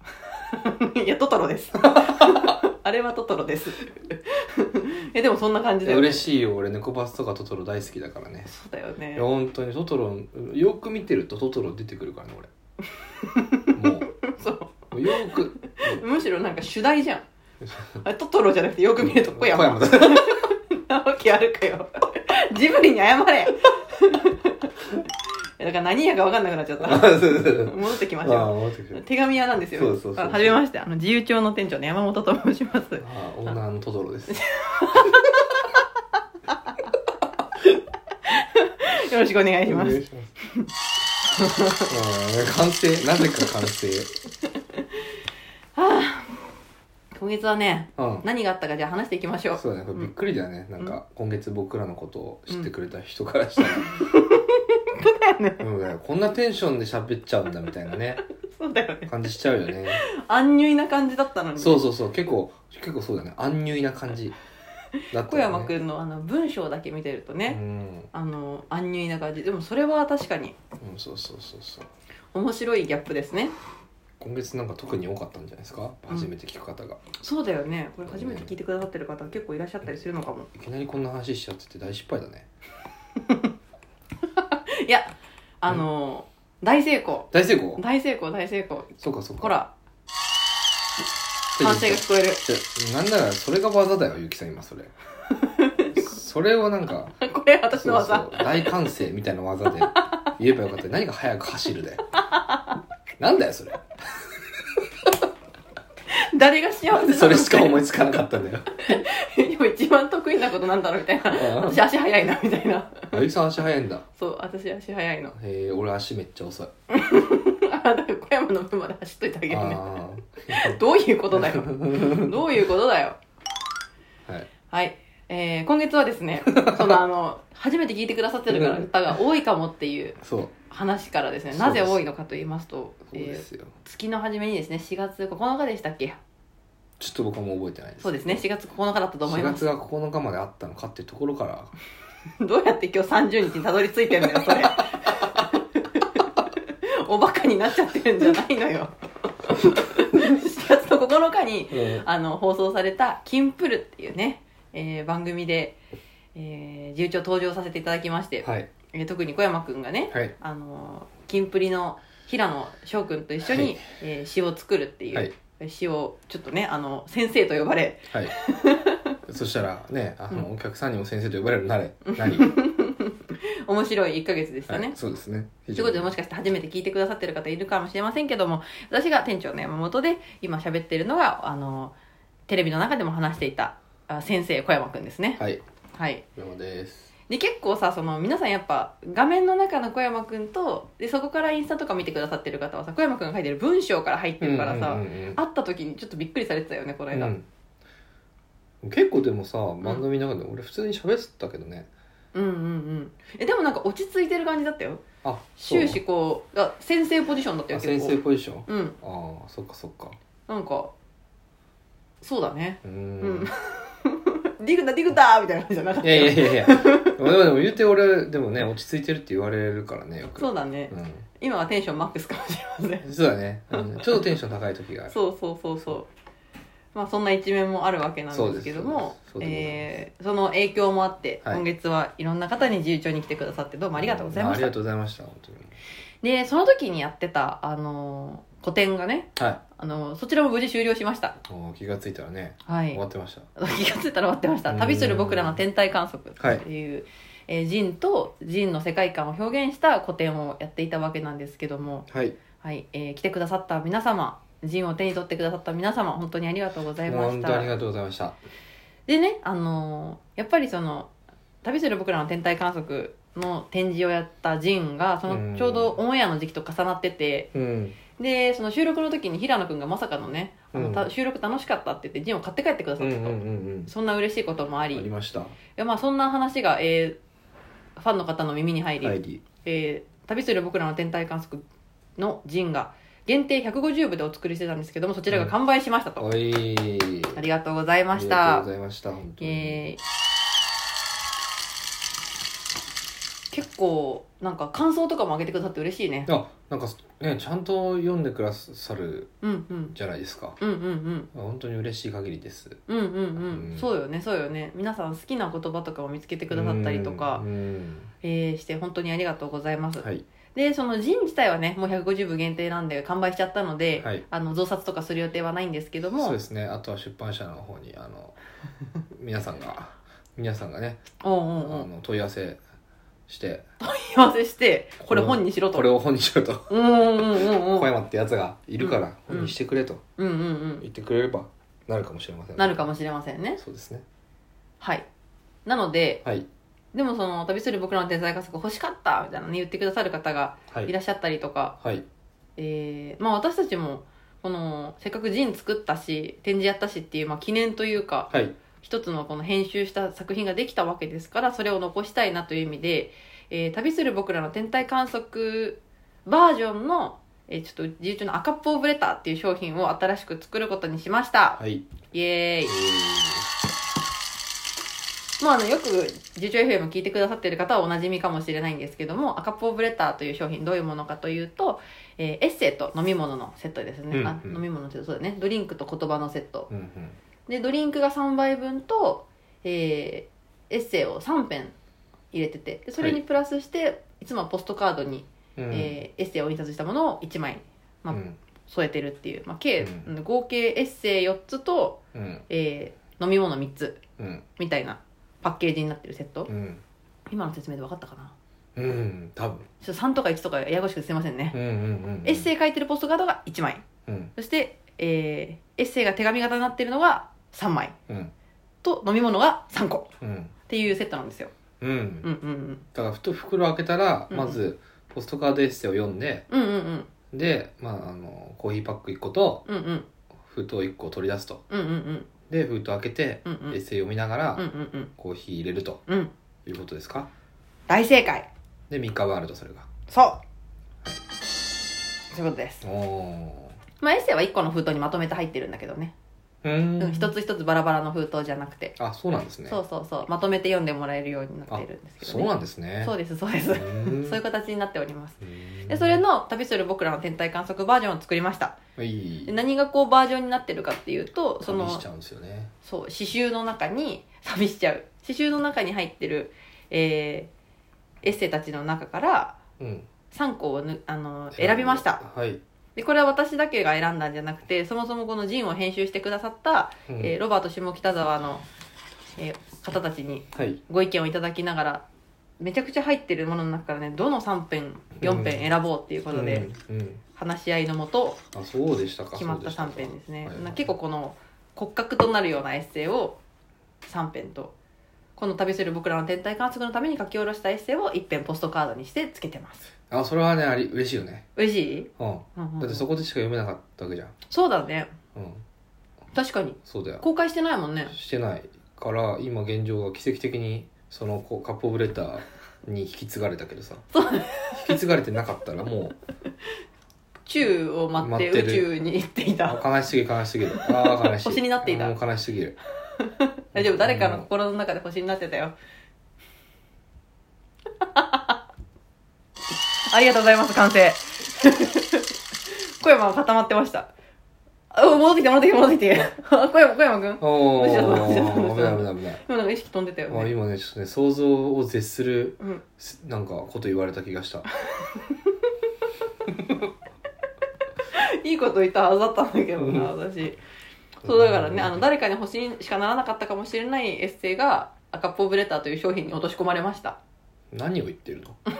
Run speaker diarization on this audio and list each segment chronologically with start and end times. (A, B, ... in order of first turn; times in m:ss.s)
0:00.4-0:06.3 A
0:01.8-0:02.6 B
0:05.8-0:08.5 B
0:08.5-0:09.3 A
0:09.1-0:12.5 B
0:13.2-0:17.2 A
0:13.7-0:14.1 B
0:14.9-0:16.0 B
0:17.6-0:18.0 B
0:18.0-0:24.7 A
0:19.0-0:20.5 B
0:25.6-0:33.5 A
0:26.8-0:29.0 B
0:29.7-0:30.6 B
0:33.0-0:34.4 B
0:34.3-0:35.8 A
0:38.2-0:40.0 A
0:39.7-0:40.3 B
0:41.3-0:41.9 A
0:41.9-0:44.1 B
0:45.7-0:46.4 A
0:47.1-0:50.1 A
0:48.0-0:48.2 B
0:49.5-0:54.0 B
0:53.8-0:55.6 A
0:55.6-0:58.2 B
0:58.5-0:59.1 A
0:59.1-1:00.0 B
0:59.9-1:01.8 A
1:01.6-1:04.3 B
1:05.1-1:05.7 B
1:05.2-1:07.6 A
1:07.5-1:08.1 B
1:08.1-1:10.6 A
1:10.8-1:11.9 B
1:12.3-1:13.5 A
1:14.2-1:17.0 B
1:17.2-1:20.5 A
1:18.1-1:18.5 B
1:20.5-1:22.5 B
1:23.2-1:23.5 A
1:24.3-1:29.7 A
1:27.3-1:27.8 B
1:29.0-1:29.5 B
1:31.6-1:34.9 B
1:31.6-1:32.4 A
1:35.4-1:36.0 A
1:35.9-1:37.2 B
1:37.2-1:38.7 A
1:37.7-1:42.0 B
1:42.3-1:42.6 A
1:43.2-1:43.9 B
1:46.1-1:47.9 A
1:46.9-1:48.7 B
1:48.7-1:53.2 A
1:51.3-1:51.8 B
1:53.1-1:54.0 B
1:54.2-1:55.3 A
1:55.3-1:56.7 B
1:56.9-2:03.2 A
1:59.5-2:00.8 B
2:01.3-2:02.4 B
2:04.7-2:10.2 A
2:06.5-2:07.0 B
2:08.5-2:08.9 B
2:10.2-2:10.5 B
2:10.7-2:16.2 A
2:11.5-2:12.0 B
2:13.1-2:13.7 B
2:17.0-2:18.4 B
2:18.0-2:19.7 A
2:19.2-2:21.7 B
2:22.4-2:35.8 A
2:24.2-2:24.8 B
2:31.7-2:32.0 B
2:36.3-2:49.2 A
2:38.4-2:38.7 B
2:43.4-2:43.8 B
2:49.3-2:52.5 B
2:52.0-2:55.0 A
2:54.7-2:56.1 B
2:55.7-3:01.9 A
3:02.5-3:05.4 A
3:05.4-3:05.6 B
3:05.9-3:06.2 A
3:06.3-3:07.1 B
3:07.3-3:17.3 A
3:14.4-3:15.4 B
3:17.1-3:17.4 B
3:18.8-3:21.9 B
3:22.3-3:25.0 A
3:25.2-3:26.0 B
3:25.6-3:29.0 A
3:27.7-3:30.2 B
3:30.5-3:30.9 A
3:32.2-3:37.2 A
3:32.8-3:33.5 B
3:36.0-3:41.2 B
3:40.4-3:43.1 A
3:43.0-3:45.2 B
3:43.8-3:44.2 A
3:45.1-3:46.1 A
3:46.9-3:54.7 A
3:48.3-3:49.9 B
3:54.0-3:55.8 B
3:56.2-4:01.4 A
3:59.4-3:59.6 B
4:01.4-4:03.5 B
4:02.6-4:03.0 A
4:03.6-4:12.1 A
4:04.7-4:05.6 B
4:06.4-4:06.6 B
4:12.1-4:12.4 B
4:12.6-4:17.7 A
4:17.0-4:18.4 B
4:19.1-4:21.1 A
4:21.6-4:27.5 A
4:25.3-4:26.0 B
4:27.5-4:28.0 B
4:28.2-4:35.1 A
4:30.7-4:31.1 B
4:33.0-4:33.9 B
4:34.9-4:35.6 B
4:35.8-4:37.2 A
4:38.0-4:41.6 A
4:39.0-4:39.4 B
4:42.2-4:46.3 A
4:46.2-4:47.4 B
4:47.3-4:48.7 A
4:48.1-4:49.8 B
4:49.4-4:50.0 A
4:53.5-4:56.3 A
4:56.2-4:59.3 B
4:59.4-5:00.0 A
4:59.9-5:00.6 B
5:00.6-5:01.3 A
5:01.3-5:02.8 B
5:02.9-5:07.4 A
5:03.4-5:03.9 B
5:06.5-5:08.1 B
5:08.2-5:16.4 A
5:10.0-5:10.2 B
5:16.2-5:18.4 B
5:19.1-5:21.0 B
5:21.2-5:21.9 A
5:21.6-5:22.6 B
5:23.3-5:23.6 B
5:23.8-5:25.9 A
5:25.1-5:30.0 B
5:26.7-5:27.9 A
5:28.8-5:29.5 A
5:30.2-5:30.8 A
5:30.8-5:32.9 B
5:32.6-5:33.6 A
5:33.6-5:34.0 B
5:34.8-5:35.0 A
5:35.6-5:36.2 A
5:36.9-5:41.8 A
5:41.8-5:42.0 B
5:42.6-6:01.6 A
5:48.3-5:48.6 B
6:01.6-6:01.9 B
6:02.1-6:02.8 A
6:02.7-6:03.5 B
6:05.4-6:16.7 A
6:14.1-6:14.6 B
6:16.7-6:17.2 B
6:17.5-6:21.7 A
6:22.3-6:34.0 A
6:25.6-6:25.9 B
6:28.1-6:28.4 B
6:29.8-6:30.1 B
6:32.1-6:32.4 B
6:34.2-6:34.4 B
6:34.6-6:36.5 A
6:36.5-6:36.8 B
6:37.3-6:38.3 A
6:38.8-6:39.7 B
6:39.8-6:41.6 A
6:41.5-6:42.5 B
6:42.2-6:43.8 A
6:44.1-6:44.3 B
6:44.4-6:47.9 A
6:48.8-6:50.1 A
6:50.2-6:50.5 B
6:50.7-6:51.5 A
6:51.8-6:52.3 B
6:52.2-6:52.8 A
6:52.9-6:56.5 B
6:54.3-6:54.6 A
6:56.5-6:57.1 A
6:57.3-6:59.6 B
6:59.6-7:00.0 A
7:00.4-7:01.6 B
7:01.7-7:02.3 A
7:02.5-7:06.0 B
7:03.4-7:03.8 A
7:04.6-7:05.1 A
7:06.6-7:07.3 B
7:07.9-7:08.5 A
7:08.9-7:09.9 B
7:10.1-7:10.4 A
7:12.3-7:12.8 A
7:12.8-7:13.7 B
7:14.0-7:16.1 A
7:16.6-7:17.3 B
7:17.0-7:19.0 A
7:19.0-7:19.8 B
7:19.7-7:22.5 A
7:21.7-7:23.1 B
7:23.0-7:28.8 A
7:23.7-7:24.4 B
7:25.4-7:26.2 B
7:29.0-7:29.5 B
7:29.4-7:32.0 A
7:31.6-7:32.7 B
7:32.8-7:37.5 A
7:38.2-7:39.6 A
7:39.8-7:40.1 B
7:40.3-7:42.2 A
7:41.5-7:42.6 B
7:43.0-7:48.6 A
7:47.1-7:47.3 B
7:49.4-7:52.0 A
7:50.5-7:50.8 B
7:52.6-7:56.7 A
7:55.2-7:55.7 B
7:56.3-7:57.2 B
7:57.4-7:58.4 A
7:58.5-8:00.9 B
7:59.3-8:03.4 A
8:04.0-8:04.7 A
8:05.4-8:09.9 A
8:10.1-8:11.4 B
8:11.6-8:13.1 A
8:12.2-8:14.3 B
8:14.5-8:15.1 A
8:15.3-8:15.6 B
8:16.3-8:18.1 A
8:16.8-8:17.2 B
8:18.1-8:24.0 B
8:24.1-8:24.9 A
8:24.7-8:26.2 B
8:27.5-8:29.8 A
8:28.2-8:28.9 B
8:29.6-8:32.8 B
8:30.8-8:32.2 A
8:33.2-8:35.7 A
8:33.7-8:34.5 B
8:38.0-8:38.5 A
8:40.0-8:44.1 A
8:44.9-8:50.5 A
8:47.4-8:49.4 B
8:50.3-8:54.6 B
8:55.0-8:55.5 A
8:58.1-9:00.6 A
8:59.8-9:00.1 B
9:01.2-9:02.0 B
9:01.2-9:07.2 A
9:07.7-9:08.6 B